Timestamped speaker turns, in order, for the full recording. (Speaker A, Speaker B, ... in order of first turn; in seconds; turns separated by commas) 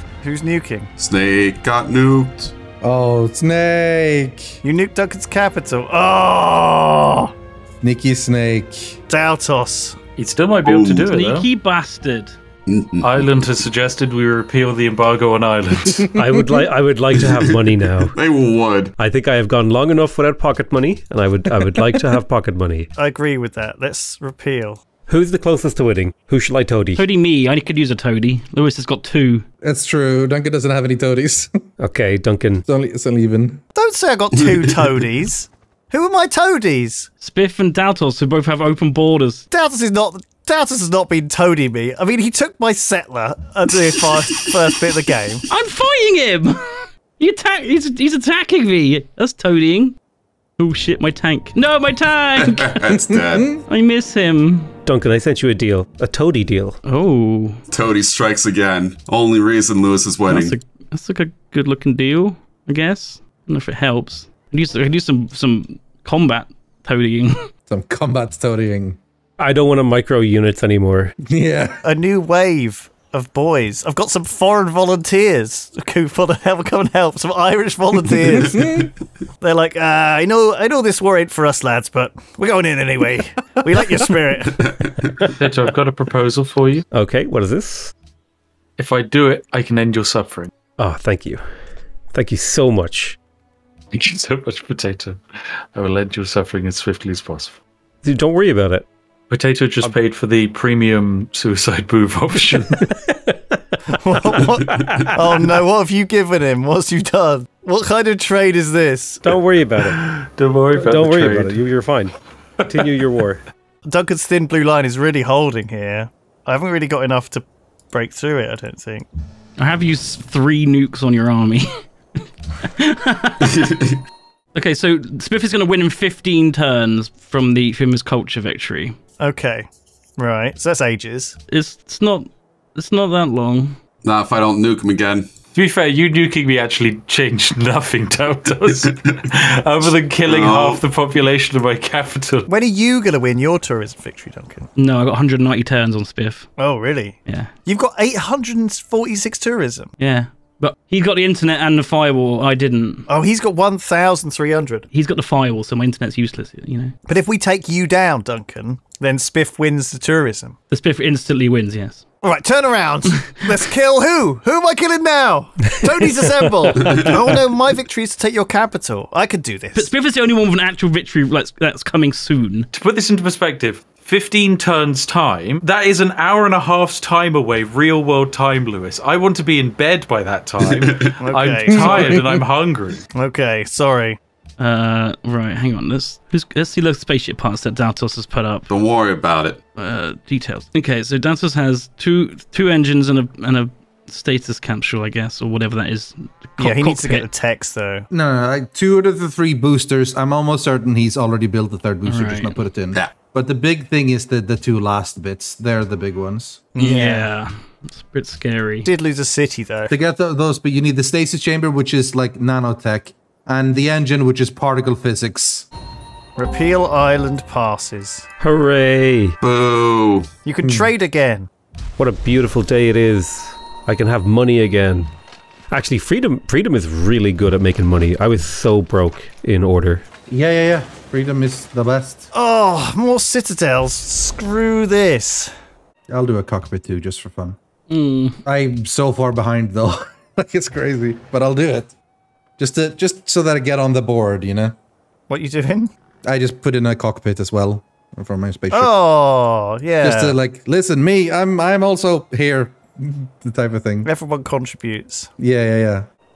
Speaker A: 0.2-0.9, Speaker B: 1.0-2.5, Speaker C: 2.8-4.6, Speaker A: 4.6-7.3, Speaker C: 7.8-9.0, Speaker A: 9.1-10.0, Speaker D: 10.2-11.5, Speaker B: 10.6-11.1, Speaker E: 11.1-12.4, Speaker B: 12.7-13.1, Speaker D: 13.0-16.1, Speaker F: 16.1-18.1, Speaker C: 16.2-16.6, Speaker B: 17.2-19.0, Speaker F: 19.0-22.9, Speaker C: 21.6-22.1, Speaker A: 23.0-24.8, Speaker F: 25.1-27.0, Speaker E: 27.0-29.5, Speaker C: 29.6-31.6, Speaker F: 31.8-32.6, Speaker C: 32.7-33.6, Speaker A: 33.8-37.1, Speaker E: 37.2-39.5, Speaker A: 39.5-45.5, Speaker E: 45.5-50.0, Speaker E: 50.6-52.8, Speaker B: 52.4-53.6, Speaker C: 53.0-53.6, Speaker E: 53.7-54.7, Speaker F: 54.9-56.8, Speaker E: 56.9-57.6, Speaker B: 57.7-60.6, Speaker E: 60.3-67.5, Speaker C: 67.7-69.0, Speaker F: 69.4-71.2, Speaker C: 71.3-71.8, Speaker A: 71.8-78.9, Speaker C: 78.3-78.9, Speaker A: 79.4-84.7, Speaker B: 84.6-85.3, Speaker D: 85.2-86.9, Speaker F: 86.9-87.9, Speaker D: 88.8-90.5, Speaker F: 90.8-91.4, Speaker F: 92.1-93.2, Speaker D: 93.9-97.6, Speaker F: 98.0-98.9, Speaker D: 99.3-102.9, Speaker F: 102.6-103.6, Speaker A: 103.9-109.4, Speaker F: 109.2-110.0, Speaker D: 109.8-111.6, Speaker F: 110.8-112.1, Speaker D: 112.6-112.9, Speaker F: 112.7-113.4, Speaker A: 113.9-119.1, Speaker E: 119.6-123.6, Speaker B: 123.5-124.0, Speaker E: 124.5-129.0, Speaker A: 129.2-131.4, Speaker E: 131.5-133.8, Speaker B: 134.0-135.3, Speaker D: 135.5-142.5, Speaker B: 140.2-140.8, Speaker A: 142.5-144.7, Speaker E: 144.8-146.5, Speaker A: 146.6-149.9, Speaker E: 147.3-147.5, Speaker E: 150.0-153.1, Speaker A: 153.1-154.9, Speaker E: 154.9-156.9, Speaker A: 157.1-160.6, Speaker E: 160.7-162.0, Speaker A: 162.2-169.9, Speaker F: 165.7-167.4, Speaker B: 166.8-167.3, Speaker E: 169.8-172.7, Speaker D: 172.7-183.0, Speaker B: 180.6-181.2, Speaker A: 181.2-182.2, Speaker C: 181.7-182.4, Speaker A: 183.2-184.2, Speaker E: 184.6-188.7, Speaker B: 188.7-189.6, Speaker E: 189.8-197.3, Speaker A: 196.6-198.1, Speaker C: 198.1-206.7, Speaker E: 202.1-202.6, Speaker A: 206.7-207.3, Speaker E: 206.8-208.9, Speaker A: 208.8-209.9, Speaker C: 209.9-215.7, Speaker A: 216.4-218.3, Speaker F: 218.4-219.4, Speaker B: 219.4-220.3, Speaker A: 220.4-221.5, Speaker C: 220.6-220.9, Speaker F: 222.0-225.1, Speaker F: 225.7-230.0, Speaker C: 230.3-232.3, Speaker A: 232.3-235.5, Speaker C: 236.1-237.6, Speaker E: 237.9-238.4, Speaker C: 238.4-241.9, Speaker C: 242.6-244.8, Speaker A: 245.3-245.9, Speaker C: 246.2-248.9, Speaker A: 248.7-250.4, Speaker C: 250.0-254.1, Speaker A: 254.0-255.3, Speaker C: 255.4-256.1